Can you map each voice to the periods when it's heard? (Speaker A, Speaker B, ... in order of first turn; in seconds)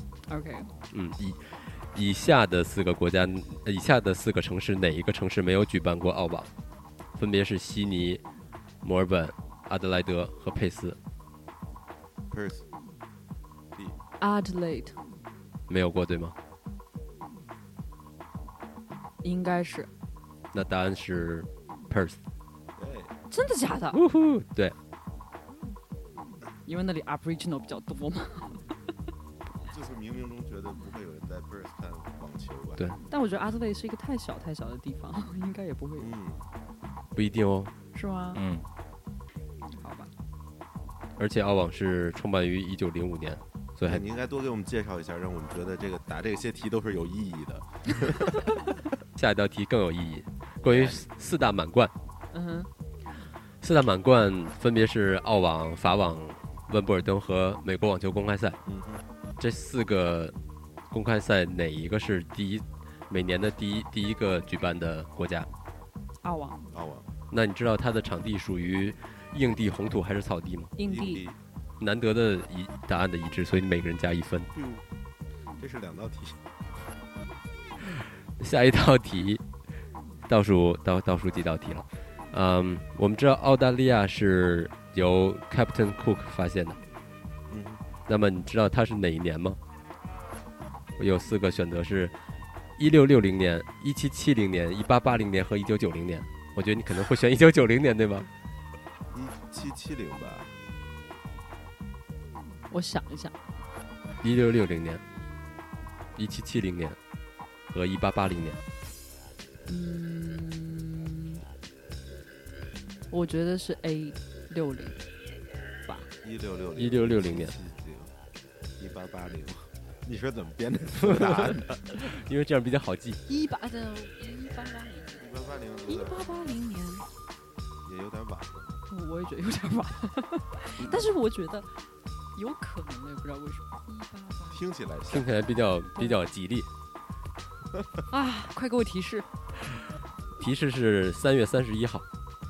Speaker A: 0.3-0.7, 14.2-15.0, 19.2-19.9, 23.3-24.0, 26.7-28.7, 33.1-36.1, 37.9-38.4, 39.8-40.1, 52.3-52.7, 66.2-66.6, 70.8-71.3, 102.7-103.4, 109.7-111.4, 113.1-115.0, 123.3-125.3, 125.9-127.1, 128.9-131.8, 132.3-134.6, 136.0-136.2, 138.1-139.3
Speaker B: 0.9-6.5, 7.2-8.2, 8.8-11.0, 15.7-16.4, 20.5-22.2, 23.9-24.8, 37.1-37.7, 38.3-38.7, 41.2-44.0, 49.2-51.9, 53.6-58.6, 59.4-60.4, 60.9-65.5, 67.3-70.7, 71.8-74.5, 78.4-79.4, 80.3-86.8, 88.1-89.6, 91.0-92.2, 92.8-98.3, 104.2-105.0, 106.2-107.0, 107.7-108.6, 116.8-117.6, 121.0-123.2, 135.1-136.7, 140.4-142.1
Speaker C: 12.3-12.7, 22.8-23.1, 29.7-32.8, 36.0-36.4, 43.9-48.5, 50.6-51.0, 58.6-59.0, 66.7-67.1, 70.8-71.4, 74.5-74.9, 75.6-76.4, 87.5-87.8, 99.1-100.6, 116.2-118.2, 118.8-121.9, 125.2-126.2, 127.8-128.8, 134.5-135.3